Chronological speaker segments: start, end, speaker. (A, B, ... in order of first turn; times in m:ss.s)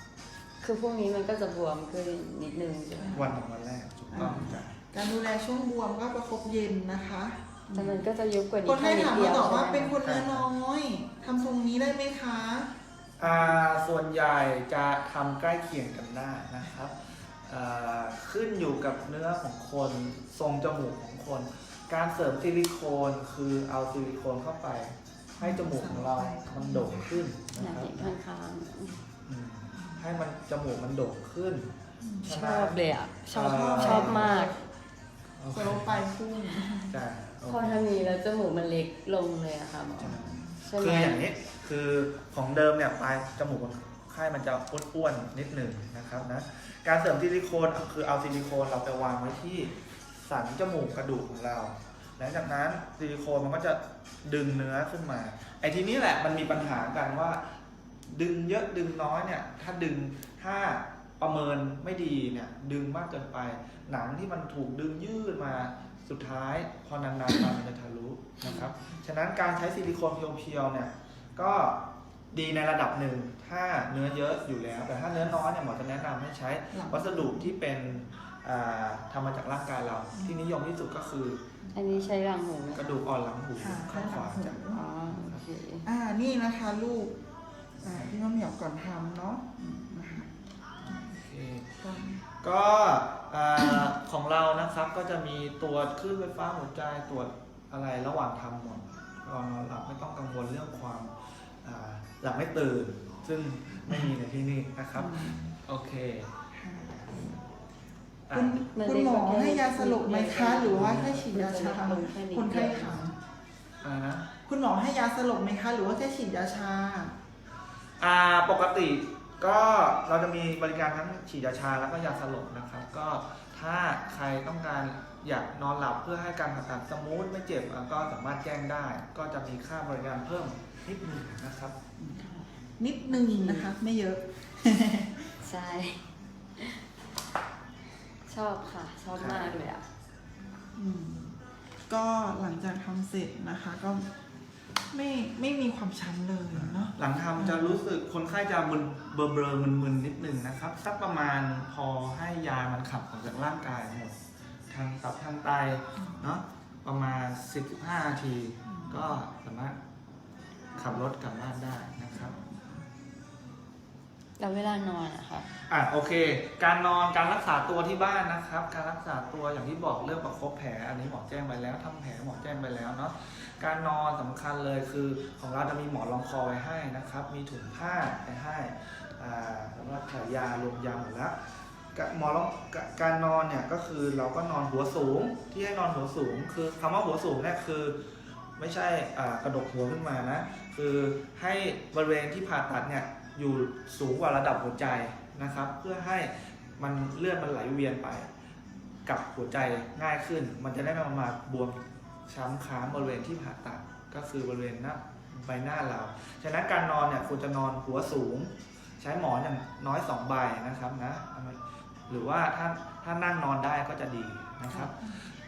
0:00.6-0:03.4 A
0:03.0-0:03.3 B
0:03.1-0:04.7 C
0:04.1-0:08.0 B
0:07.7-0:10.0 A
0:08.6-0:12.7 B
0:10.0-0:10.5 C
0:13.2-0:28.1 C
0:25.4-0:27.3 B
0:27.5-0:29.0 A
0:29.2-0:31.7 C
0:29.7-0:30.0 B
0:32.0-0:32.3 B
0:32.2-0:34.4 C
0:32.2-0:34.6 A
0:33.3-0:34.6 B
0:35.4-0:36.0 C
0:35.5-0:36.9 B
0:36.9-0:37.8 C
0:37.5-0:41.3 A
0:40.0-0:57.4 C
0:40.1-0:40.6 B
0:58.1-1:21.4 C
1:16.7-1:17.6 B
1:20.1-1:20.4 B
1:21.7-1:23.0 A
1:22.7-1:25.4 C
1:23.6-1:25.2 B
1:24.9-1:25.9 A
1:25.8-1:27.2 B
1:27.8-1:30.3 B
1:27.8-1:28.1 C
1:30.8-1:31.7 C
1:30.9-1:31.2 B
1:31.8-1:32.2 B
1:32.4-1:46.3 C
1:44.9-1:45.6 B
1:46.5-1:47.4 B
1:48.3-1:48.6 C
1:48.3-1:53.2 B
1:48.7-1:53.0 A
1:50.6-1:51.2 C
1:53.8-1:54.3 C
1:54.4-1:57.2 B
1:58.0-2:11.7 C
2:12.0-2:12.2 B
2:12.1-2:12.5 A
2:12.8-2:15.3 B
2:13.0-2:13.7 A
2:15.4-2:16.8 A
2:18.2-2:19.9 A
2:19.1-2:19.7 C
2:20.7-2:21.4 B
2:21.9-2:24.1 B
2:24.9-2:27.8 B
2:26.5-2:34.2 C
2:34.7-2:39.8 C
2:36.0-2:36.2 B
2:38.7-2:39.1 B
2:40.7-2:42.4 C
2:42.1-2:42.8 B
2:44.4-2:45.5 A
2:45.7-3:01.4 C
3:01.9-3:08.0 C
3:08.6-3:18.3 C
3:19.0-3:35.3 C
3:34.7-3:35.2 B